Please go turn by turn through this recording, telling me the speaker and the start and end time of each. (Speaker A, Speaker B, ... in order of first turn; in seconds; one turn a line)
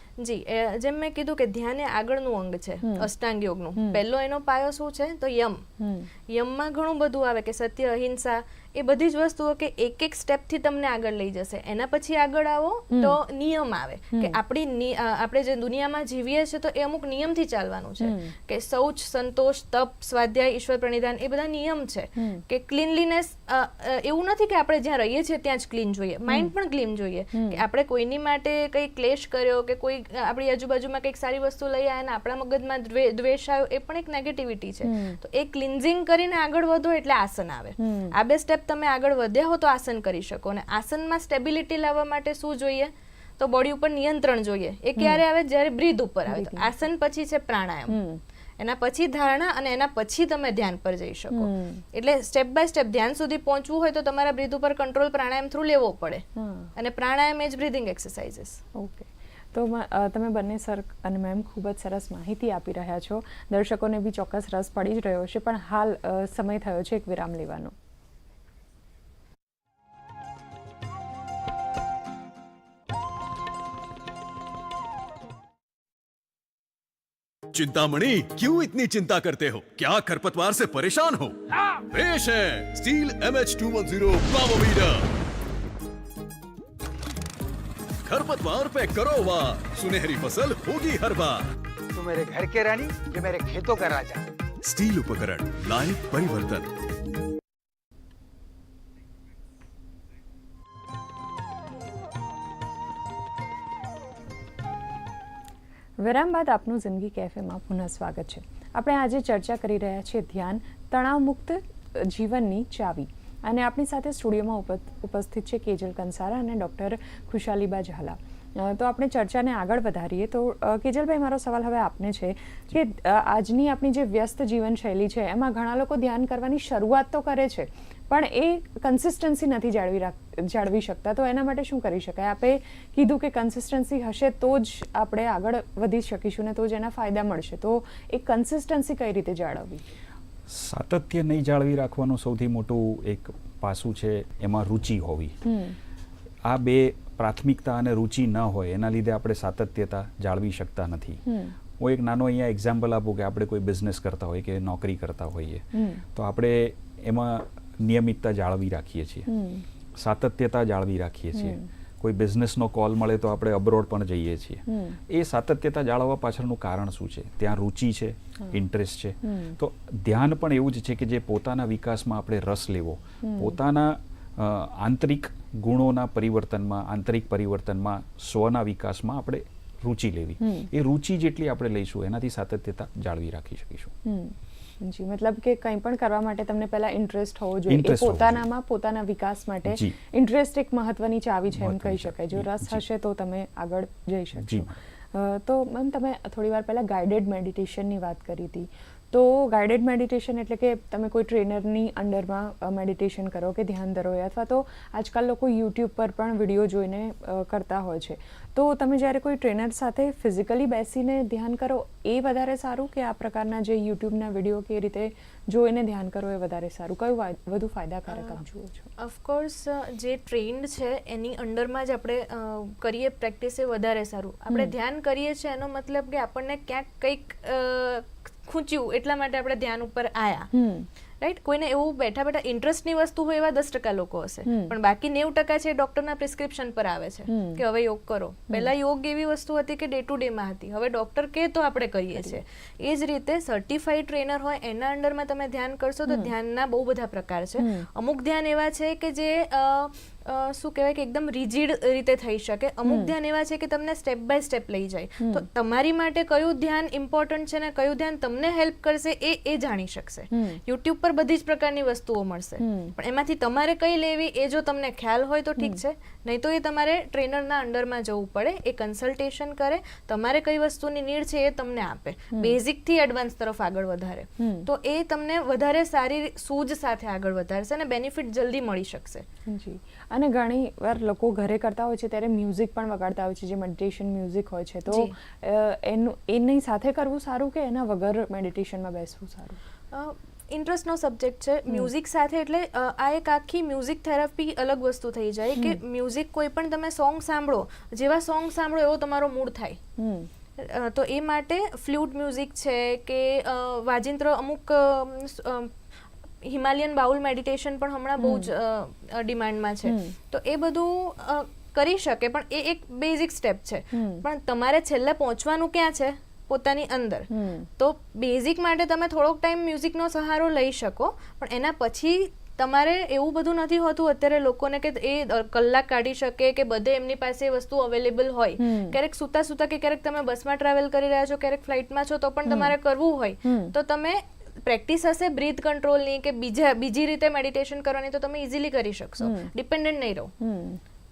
Speaker A: 0.2-5.6
Speaker B: 2.8-3.1
Speaker B: 3.8-4.0
Speaker B: 5.8-6.1
Speaker A: 6.3-48.0
Speaker B: 12.9-13.2
Speaker B: 14.1-14.4
Speaker B: 18.0-18.3
Speaker B: 22.2-22.4
Speaker B: 26.3-26.5
Speaker B: 27.3-27.6
Speaker B: 34.8-35.2
Speaker B: 37.8-38.1
Speaker B: 46.3-46.7
Speaker B: 47.9-48.2
Speaker A: 48.6-58.6
Speaker B: 51.3-51.8
Speaker B: 56.3-56.7
Speaker B: 58.8-67.8
Speaker C: 77.5-85.0
Speaker C: 88.0-91.4
Speaker D: 91.9-94.2
Speaker C: 94.6-96.7
Speaker B: 106.0-139.8
Speaker E: 140.5-145.4
Speaker B: 145.4-145.8
Speaker E: 146.4-151.2
Speaker B: 151.2-151.6
Speaker E: 151.8-159.3
Speaker B: 155.7-156.0
Speaker B: 159.3-159.7
Speaker E: 160.0-183.9
Speaker B: 161.3-161.7
Speaker B: 164.7-165.0
Speaker B: 169.2-169.6
Speaker B: 173.2-173.6
Speaker B: 180.4-180.7
Speaker B: 184.0-218.9
Speaker E: 187.7-188.5
Speaker E: 189.7-189.9
Speaker E: 191.5-192.8
Speaker E: 194.4-194.8
Speaker A: 218.1-218.4
Speaker A: 219.0-230.5
Speaker B: 230.5-230.9
Speaker A: 231.2-279.2
Speaker B: 234.4-234.8
Speaker B: 237.3-237.6
Speaker B: 242.1-242.4
Speaker B: 246.1-246.3
Speaker B: 247.6-247.9
Speaker B: 252.8-253.1
Speaker B: 255.2-255.4
Speaker B: 260.3-260.6
Speaker B: 262.6-262.9
Speaker B: 274.4-274.7
Speaker B: 279.5-289.6
Speaker A: 284.9-285.1
Speaker A: 289.9-299.8
Speaker B: 300.0-300.3
Speaker A: 300.6-305.7
Speaker A: 306.4-340.3
Speaker B: 308.2-308.5
Speaker B: 309.9-310.1
Speaker B: 313.9-314.2
Speaker B: 317.3-317.7
Speaker B: 328.6-328.9
Speaker B: 332.4-332.7
Speaker B: 333.4-333.7
Speaker B: 339.2-339.5
Speaker B: 340.4-340.8